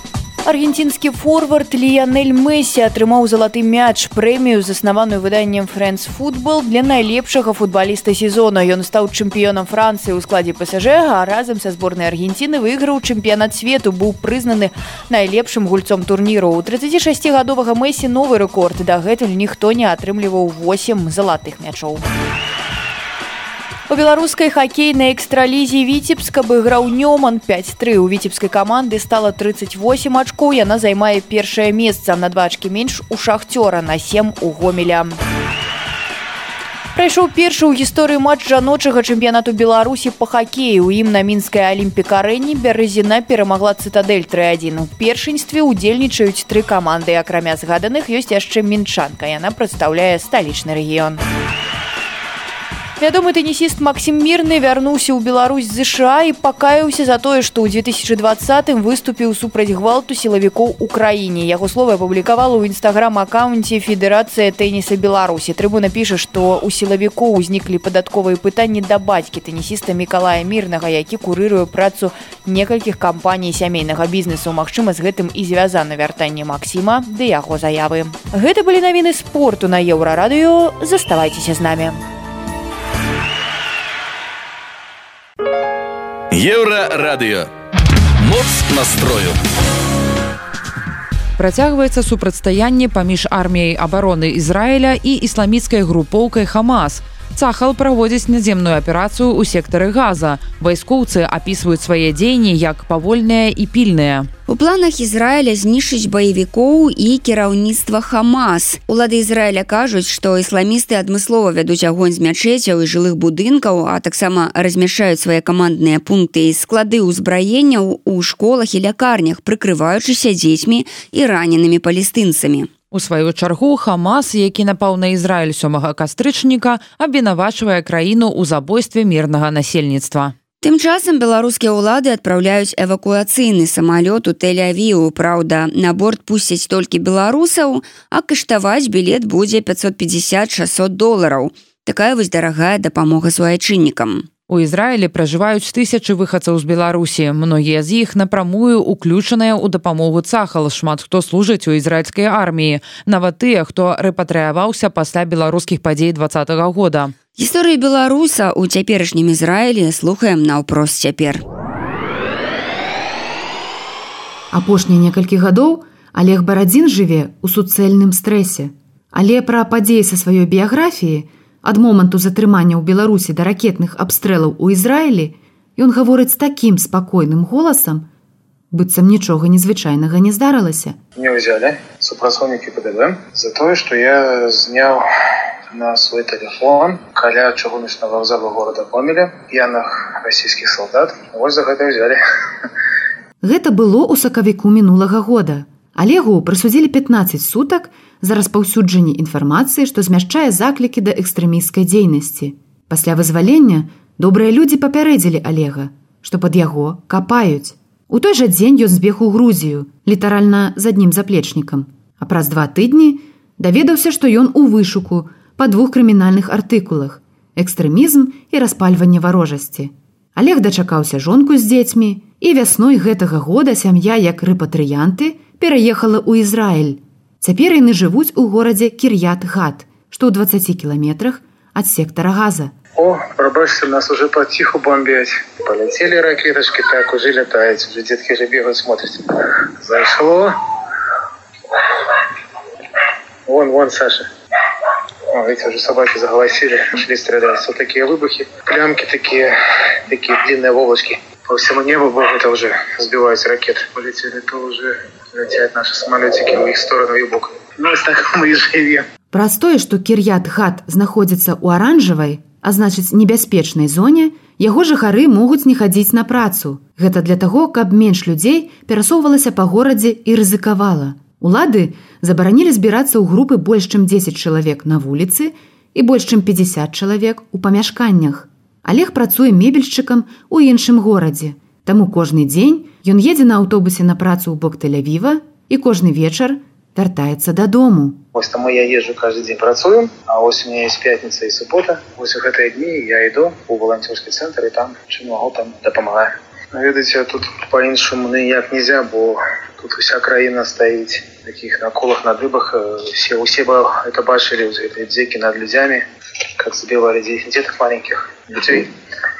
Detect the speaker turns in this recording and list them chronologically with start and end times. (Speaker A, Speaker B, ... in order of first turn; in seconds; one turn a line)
Speaker A: 0.4-22.0
Speaker A: 23.9-35.2
Speaker A: 36.9-51.2
Speaker A: 53.0-82.0
Speaker B: 86.3-87.5
Speaker B: 88.2-89.4
Speaker C: 91.4-104.3
Speaker D: 104.5-122.7
Speaker C: 122.9-130.3
Speaker D: 130.6-144.3
Speaker C: 144.5-157.1
Speaker D: 157.3-161.4
Speaker E: 164.5-178.1
Speaker E: 178.7-181.0
Speaker F: 181.2-185.1
Speaker F: 185.7-192.2
Speaker E: 193.4-232.7
Speaker F: 232.9-239.3
Speaker F: 239.8-240.5
Speaker F: 243.5-244.3
Speaker F: 245.3-249.5
Speaker F: 250.1-259.1
Speaker E: 259.3-288.2
Speaker F: 288.3-306.0
Speaker F: 306.6-308.9